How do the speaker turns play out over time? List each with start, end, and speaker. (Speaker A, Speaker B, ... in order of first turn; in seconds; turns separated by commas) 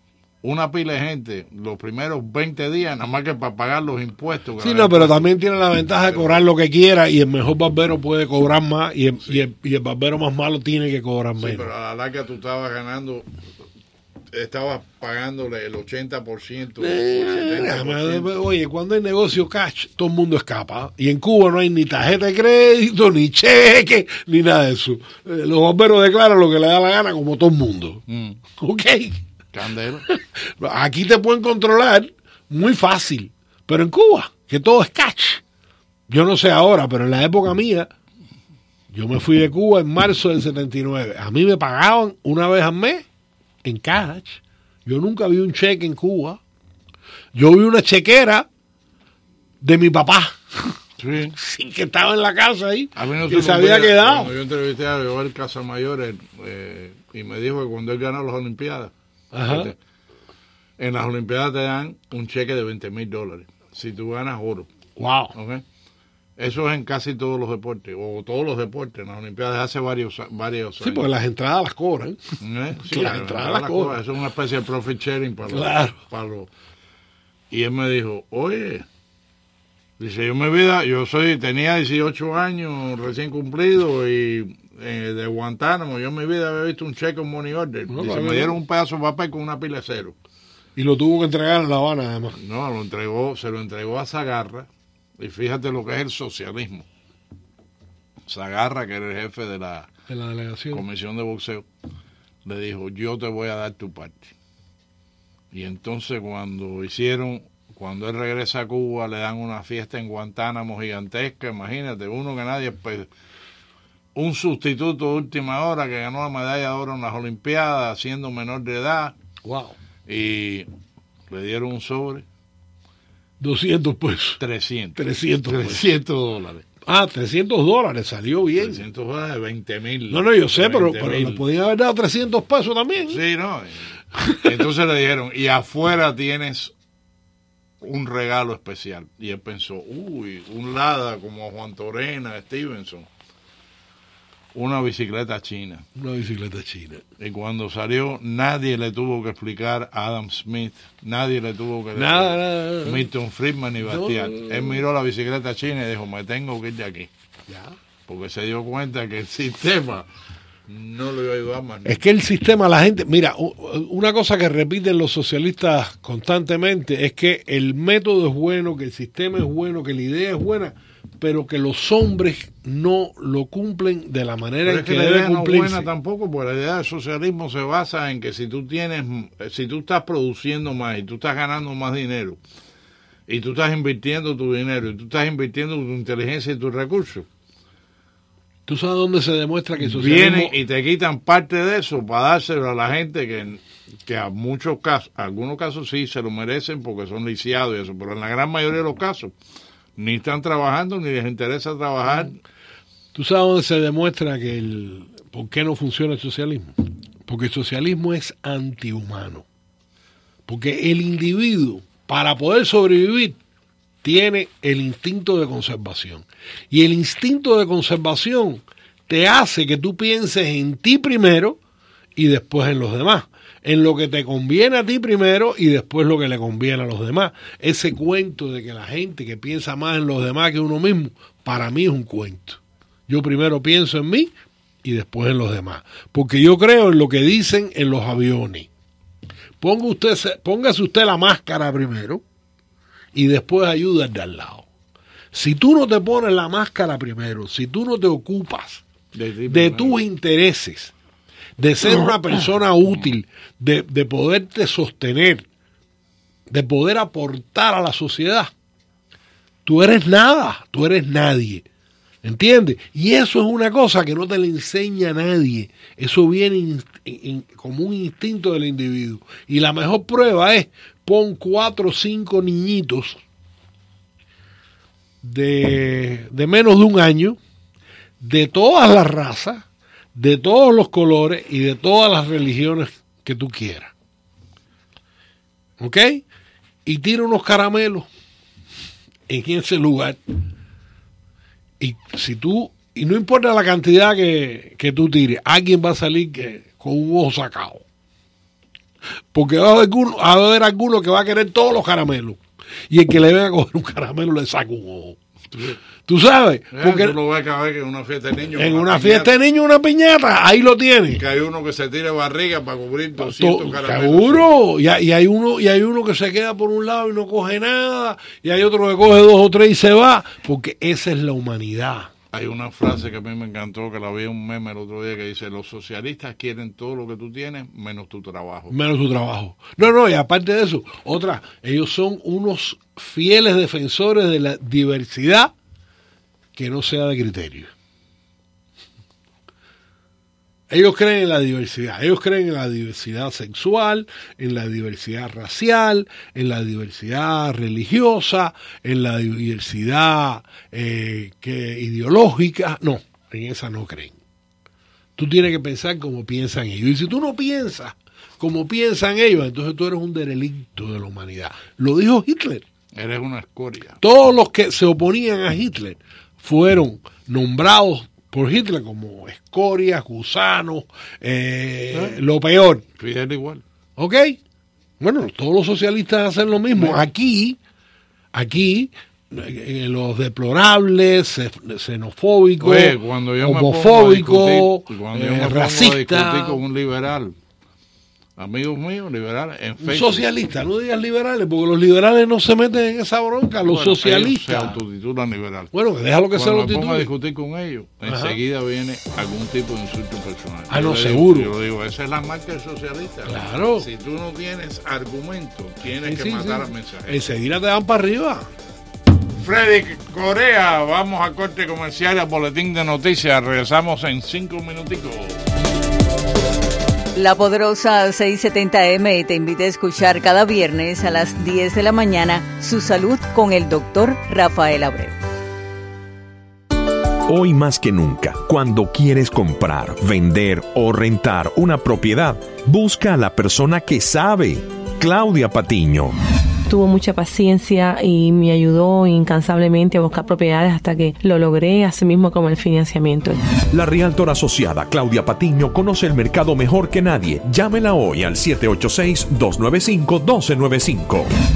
Speaker A: 0.4-5.3, Speaker B: 4.6-11.7, Speaker A: 6.0-6.4, Speaker A: 11.4-13.2, Speaker A: 14.3-18.3, Speaker B: 16.8-28.0, Speaker A: 28.1-28.4, Speaker B: 28.6-29.2, Speaker A: 29.5-30.0, Speaker B: 30.1-35.4, Speaker B: 36.1-37.9, Speaker B: 38.9-43.0, Speaker B: 43.6-46.4, Speaker B: 47.3-48.5, Speaker B: 49.6-50.8, Speaker A: 51.0-51.4, Speaker B: 51.4-54.3, Speaker A: 53.0-58.9, Speaker B: 59.3-59.7, Speaker A: 59.5-59.8, Speaker A: 60.8-64.7, Speaker B: 65.0-65.3, Speaker A: 65.3-65.6, Speaker A: 66.4-71.0, Speaker B: 70.8-72.2, Speaker A: 72.4-76.5, Speaker B: 72.8-74.0, Speaker B: 75.5-76.0, Speaker A: 77.5-78.8, Speaker A: 80.0-90.2, Speaker B: 87.9-88.5, Speaker B: 90.8-92.4, Speaker A: 92.3-94.7, Speaker A: 95.2-96.8, Speaker A: 98.3-99.9, Speaker B: 100.1-100.8, Speaker A: 100.7-101.6, Speaker A: 102.4-104.3, Speaker A: 105.5-113.1, Speaker A: 114.1-119.2, Speaker B: 119.4-119.7, Speaker A: 120.1-120.7, Speaker A: 121.3-122.2, Speaker B: 123.4-124.4, Speaker A: 124.4-126.6, Speaker B: 125.0-126.0, Speaker B: 126.8-128.8, Speaker A: 128.6-131.4, Speaker B: 130.1-133.2, Speaker A: 132.9-133.9, Speaker A: 134.4-136.7, Speaker A: 137.8-143.1, Speaker A: 144.5-145.8, Speaker B: 145.9-147.0, Speaker A: 147.2-157.1, Speaker B: 151.9-153.1, Speaker B: 153.8-154.8, Speaker B: 157.5-157.8, Speaker A: 158.1-160.1, Speaker A: 160.7-162.0, Speaker B: 161.8-175.8, Speaker A: 174.6-182.4, Speaker A: 183.3-187.2, Speaker B: 188.7-190.5, Speaker A: 189.8-199.3, Speaker A: 200.0-202.4, Speaker B: 203.1-206.7, Speaker B: 207.3-209.4, Speaker B: 210.5-213.4, Speaker B: 214.0-221.6, Speaker B: 222.2-234.3, Speaker B: 234.8-238.7, Speaker B: 239.6-242.2, Speaker B: 243.1-244.6, Speaker B: 245.3-248.8, Speaker A: 249.1-250.0, Speaker B: 249.5-250.9, Speaker B: 251.6-255.4, Speaker A: 252.9-253.1, Speaker B: 256.5-258.5, Speaker B: 259.6-261.6, Speaker B: 262.2-273.2, Speaker B: 275.2-277.4, Speaker B: 278.2-283.9, Speaker B: 285.8-286.2, Speaker B: 286.8-288.1, Speaker B: 289.3-290.2, Speaker B: 291.8-297.8, Speaker B: 299.3-305.2, Speaker B: 306.0-307.1, Speaker A: 306.7-309.3, Speaker B: 308.6-311.2, Speaker A: 311.1-314.5, Speaker B: 313.2-322.1, Speaker A: 322.3-328.7, Speaker B: 328.7-335.5, Speaker B: 336.5-337.7, Speaker B: 340.7-354.1, Speaker B: 355.2-362.6, Speaker A: 362.9-364.0, Speaker B: 364.0-372.8, Speaker A: 373.0-373.6, Speaker B: 374.0-374.4, Speaker B: 375.0-377.6, Speaker A: 376.7-377.0, Speaker B: 378.3-386.6, Speaker A: 382.6-387.3, Speaker A: 388.4-390.2, Speaker B: 389.8-394.8, Speaker A: 393.6-395.7, Speaker B: 395.7-397.1, Speaker A: 396.3-407.2, Speaker B: 398.1-398.4, Speaker B: 400.7-401.5, Speaker B: 403.3-403.9, Speaker B: 405.9-408.5, Speaker A: 409.4-415.4, Speaker C: 417.1-425.1, Speaker D: 427.2-436.1, Speaker E: 436.7-443.4, Speaker D: 443.7-451.3